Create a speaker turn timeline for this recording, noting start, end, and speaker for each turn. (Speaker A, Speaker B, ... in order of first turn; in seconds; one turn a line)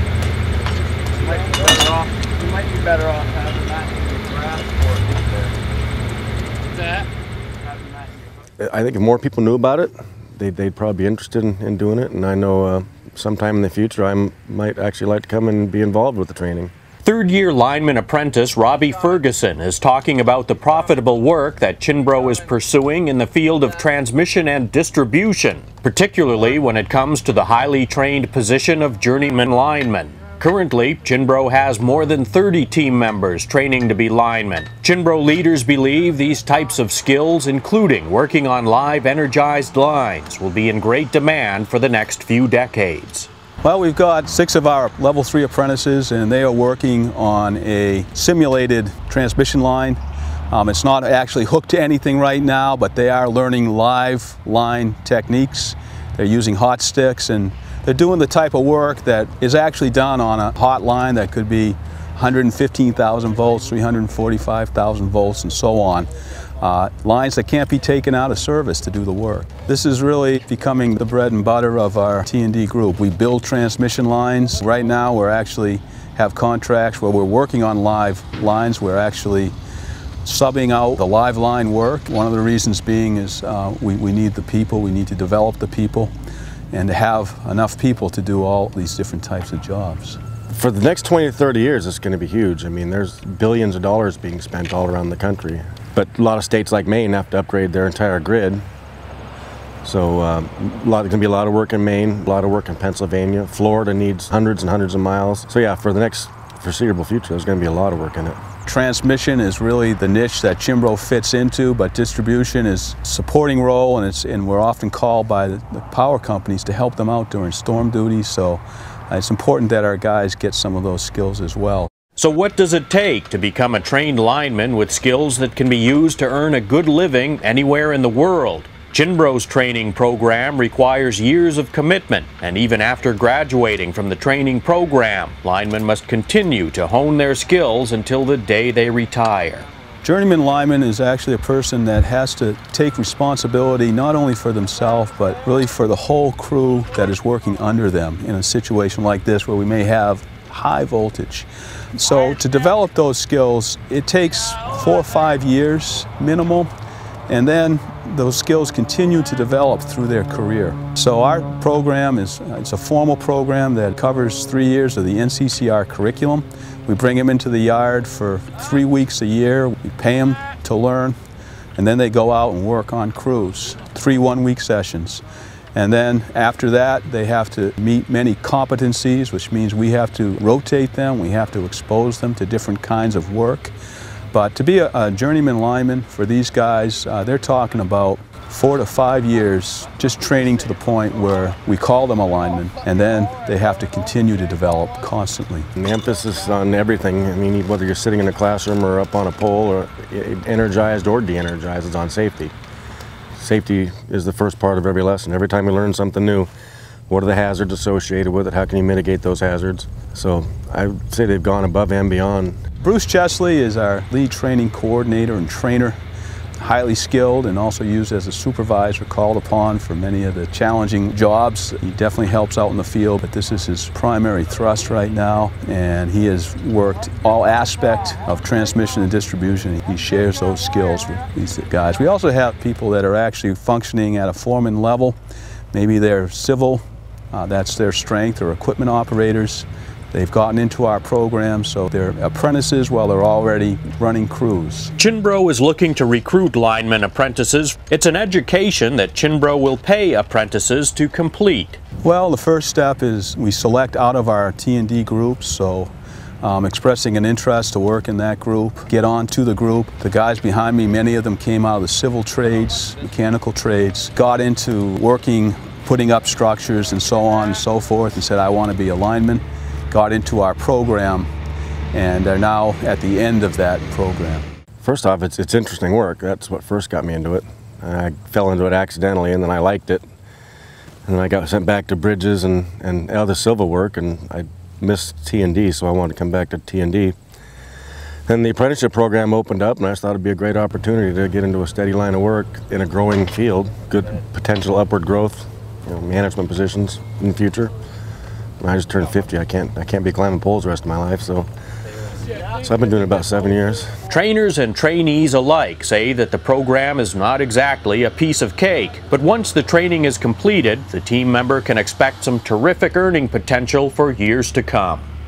Speaker A: 1.2-5.5
Speaker B: 8.6-16.7
Speaker C: 17.0-43.3
Speaker D: 43.6-50.0
Speaker D: 50.5-79.5
Speaker D: 80.2-86.1
Speaker D: 86.7-90.2
Speaker B: 90.5-98.6
Speaker B: 99.8-108.4
Speaker D: 108.7-121.9
Speaker C: 122.2-139.7
Speaker D: 140.0-156.7
Speaker D: 157.3-171.2
Speaker D: 171.8-183.7
Speaker D: 184.3-195.7
Speaker B: 195.8-202.5
Speaker B: 203.4-206.5
Speaker B: 207.1-212.6
Speaker D: 212.8-216.0
Speaker D: 216.6-235.2
Speaker D: 235.7-244.9
Speaker C: 245.0-251.8
Speaker D: 252.0-271.3
Speaker D: 271.9-274.4
Speaker B: 274.8-280.1
Speaker B: 281.1-287.2
Speaker B: 288.3-297.7
Speaker B: 298.6-301.5
Speaker B: 302.4-304.0
Speaker C: 304.1-315.1